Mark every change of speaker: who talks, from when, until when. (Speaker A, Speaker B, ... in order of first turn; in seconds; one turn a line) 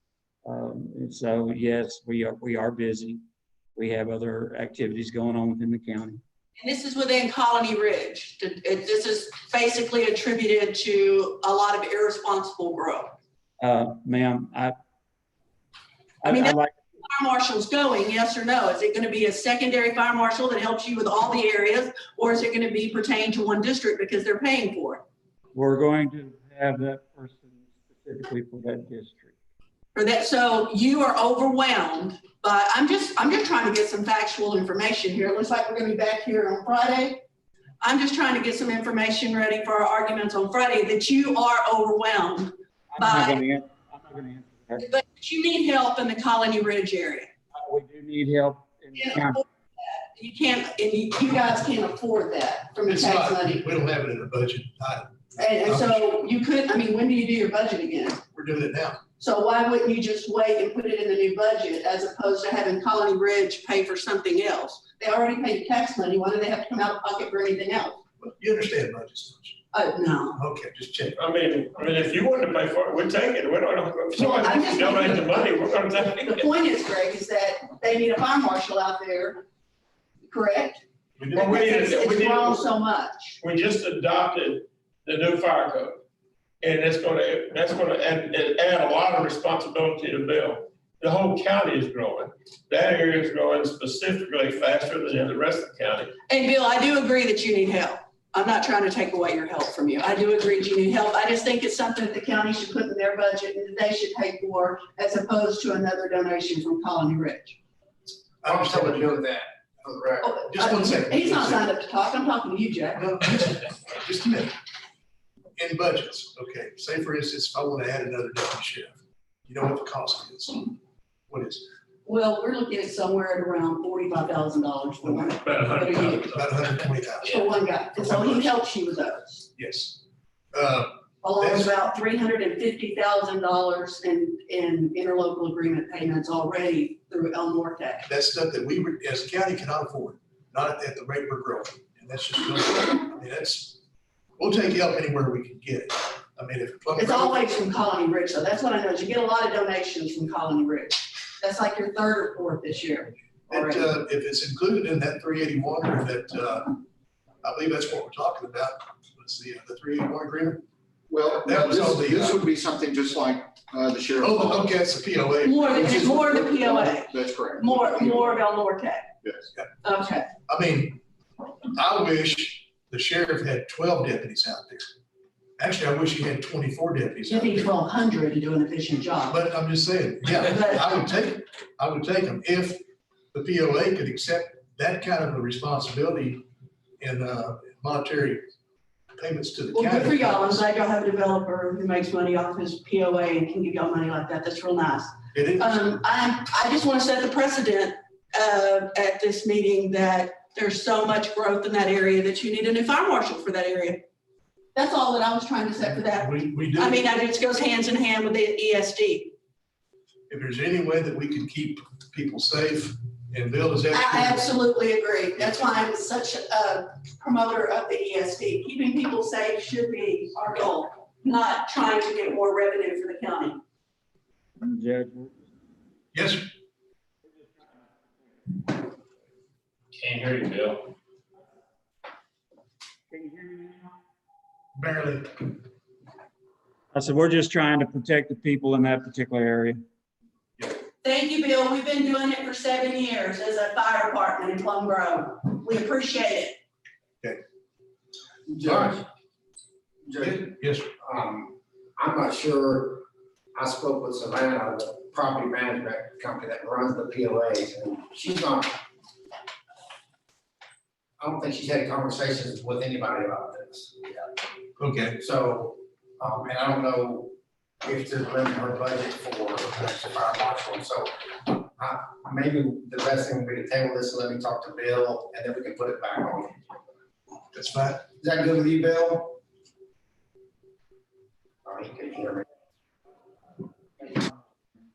Speaker A: 0.5-3.2
Speaker A: 3.8-6.2
Speaker B: 6.6-13.2
Speaker A: 13.6-14.8
Speaker A: 16.2-16.7
Speaker B: 16.3-25.1
Speaker A: 25.5-29.4
Speaker B: 29.9-37.2
Speaker B: 37.8-43.4
Speaker A: 42.9-44.9
Speaker B: 44.8-47.3
Speaker A: 47.5-49.4
Speaker B: 49.0-53.6
Speaker C: 52.9-56.2
Speaker B: 55.4-58.2
Speaker C: 58.3-59.0
Speaker B: 59.2-68.0
Speaker C: 68.2-69.6
Speaker B: 69.7-70.4
Speaker C: 70.3-71.2
Speaker D: 71.2-76.5
Speaker B: 74.2-75.4
Speaker B: 76.0-79.4
Speaker B: 80.3-80.8
Speaker C: 81.2-81.5
Speaker D: 81.3-82.6
Speaker B: 81.3-83.4
Speaker D: 83.4-86.0
Speaker D: 86.6-96.1
Speaker B: 96.3-107.6
Speaker C: 108.4-109.2
Speaker E: 108.5-110.4
Speaker B: 110.2-113.0
Speaker C: 110.5-111.6
Speaker C: 113.0-114.5
Speaker C: 115.6-120.7
Speaker C: 121.3-121.7
Speaker B: 122.0-126.3
Speaker D: 125.4-126.7
Speaker C: 126.3-127.4
Speaker B: 127.2-129.5
Speaker C: 128.0-128.6
Speaker C: 129.6-131.7
Speaker B: 131.2-138.1
Speaker C: 138.1-143.8
Speaker C: 144.4-147.4
Speaker B: 147.0-153.9
Speaker C: 153.5-156.8
Speaker C: 157.4-160.6
Speaker F: 161.1-164.7
Speaker C: 161.4-162.4
Speaker C: 164.2-165.8
Speaker B: 165.4-169.1
Speaker F: 165.7-168.3
Speaker B: 169.8-170.3
Speaker C: 170.5-171.0
Speaker C: 171.7-174.9
Speaker C: 175.6-177.7
Speaker B: 177.3-179.4
Speaker C: 179.3-182.8
Speaker B: 180.4-180.8
Speaker C: 183.3-186.4
Speaker C: 187.0-188.5
Speaker C: 189.2-190.6
Speaker B: 189.7-204.0
Speaker C: 195.3-195.8
Speaker B: 204.8-209.3
Speaker C: 206.1-207.0
Speaker C: 210.3-214.4
Speaker B: 213.9-223.6
Speaker A: 224.6-225.4
Speaker C: 226.1-226.5
Speaker A: 227.3-227.9
Speaker D: 229.9-230.8
Speaker A: 233.1-233.9
Speaker C: 234.8-235.4
Speaker A: 236.9-239.8
Speaker B: 241.0-246.6
Speaker E: 248.5-249.0
Speaker C: 248.6-248.9
Speaker E: 250.1-258.8
Speaker C: 250.2-250.9
Speaker E: 261.2-264.1
Speaker C: 264.8-265.2
Speaker E: 265.2-276.8
Speaker C: 277.5-278.1
Speaker E: 278.2-279.4
Speaker E: 281.6-282.4